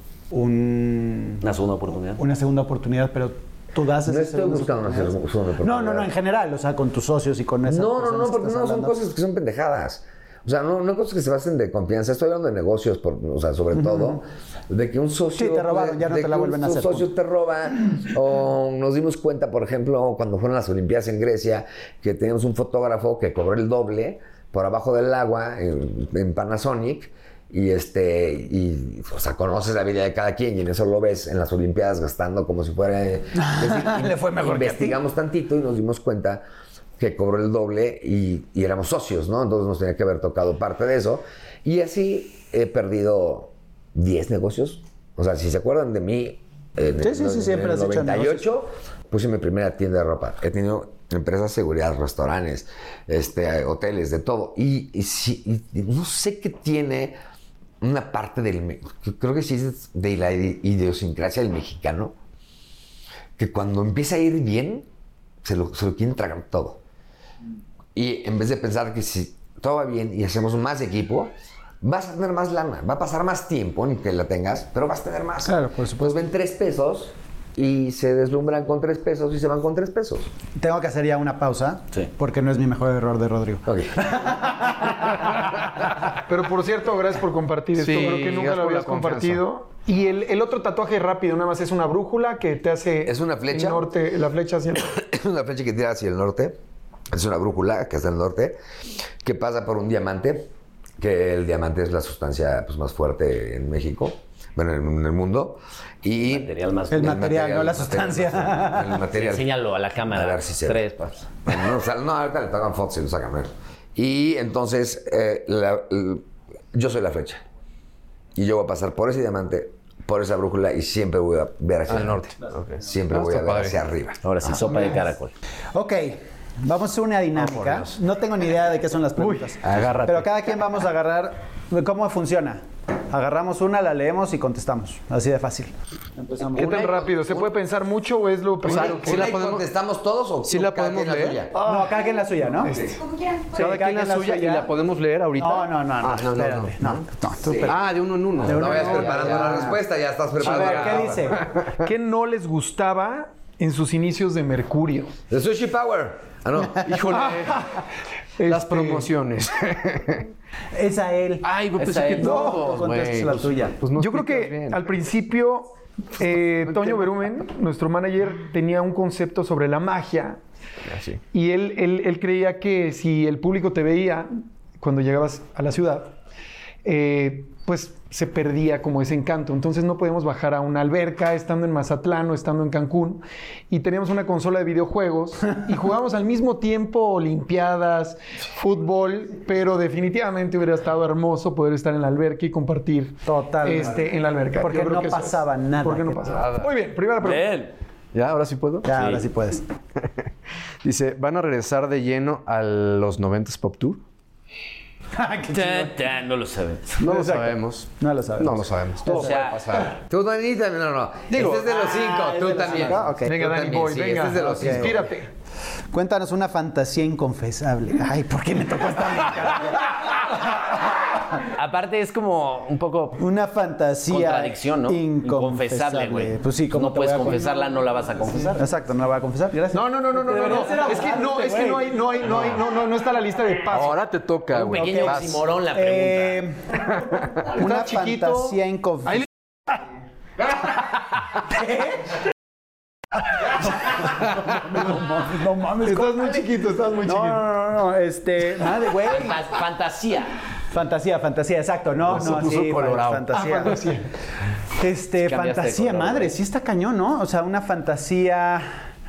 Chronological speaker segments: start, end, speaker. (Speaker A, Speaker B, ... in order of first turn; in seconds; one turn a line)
Speaker A: 0.3-1.4
Speaker B: 1.4-2.2
Speaker A: 2.1-9.0
Speaker C: 4.0-6.1
Speaker C: 7.7-36.4
Speaker A: 13.8-14.2
Speaker A: 15.3-17.1
Speaker A: 33.4-35.0
Speaker C: 37.0-57.2
Speaker A: 47.0-48.5
Speaker C: 57.8-62.1
Speaker C: 63.4-64.9
Speaker C: 65.4-66.8
Speaker C: 67.9-71.3
Speaker C: 71.8-80.3
Speaker A: 75.4-76.2
Speaker A: 80.5-85.5
Speaker C: 83.7-84.0
Speaker D: 86.3-94.9
Speaker E: 87.8-89.4
Speaker C: 93.0-93.9
Speaker C: 94.8-96.6
Speaker C: 97.1-98.6
Speaker C: 99.2-110.8
Speaker B: 106.3-107.3
Speaker A: 106.9-109.0
Speaker B: 109.1-111.3
Speaker C: 111.4-117.4
Speaker C: 118.3-124.2
Speaker E: 121.9-123.8
Speaker B: 124.2-125.3
Speaker A: 125.7-137.0
Speaker E: 127.4-127.9
Speaker E: 129.6-130.3
Speaker D: 136.5-139.3
Speaker C: 137.0-137.4
Speaker E: 138.6-139.7
Speaker C: 138.6-141.6
Speaker E: 140.5-141.4
Speaker D: 141.5-141.9
Speaker A: 141.6-142.8
Speaker C: 142.6-143.0
Speaker A: 143.5-144.7
Speaker E: 143.5-147.0
Speaker A: 145.4-149.8
Speaker C: 147.4-147.8
Speaker E: 147.6-149.7
Speaker C: 148.4-151.4
Speaker A: 150.4-151.4
Speaker E: 150.4-151.7
Speaker D: 151.8-155.1
Speaker C: 155.3-157.0
Speaker E: 156.8-157.7
Speaker D: 157.1-157.8
Speaker D: 158.4-159.1
Speaker E: 158.4-160.3
Speaker A: 160.7-163.8
Speaker E: 161.4-164.8
Speaker D: 163.9-170.4
Speaker E: 166.7-167.1
Speaker E: 170.9-171.2
Speaker D: 171.3-176.1
Speaker D: 176.8-197.6
Speaker A: 193.2-196.4
Speaker E: 196.3-196.7
Speaker B: 197.2-197.7
Speaker E: 198.1-199.2
Speaker A: 198.8-199.7
Speaker E: 200.8-204.0
Speaker A: 205.1-206.0
Speaker B: 205.5-206.9
Speaker A: 207.0-209.7
Speaker E: 207.0-209.9
Speaker B: 209.0-209.9
Speaker C: 210.0-215.1
Speaker E: 211.3-211.6
Speaker A: 211.3-213.3
Speaker D: 213.2-215.3
Speaker A: 214.4-215.1
Speaker A: 215.9-220.7
Speaker B: 221.5-223.2
Speaker A: 223.2-227.5
Speaker B: 224.1-228.6
Speaker A: 228.5-232.0
Speaker D: 229.7-234.0
Speaker E: 233.7-235.4
Speaker B: 234.5-236.4
Speaker A: 234.7-239.3
Speaker D: 237.5-238.6
Speaker A: 241.4-242.2
Speaker A: 243.3-249.5
Speaker D: 245.8-247.4
Speaker B: 249.0-250.3
Speaker A: 250.7-253.9
Speaker E: 252.1-253.3
Speaker D: 253.3-254.0
Speaker A: 254.7-258.7
Speaker B: 255.2-256.4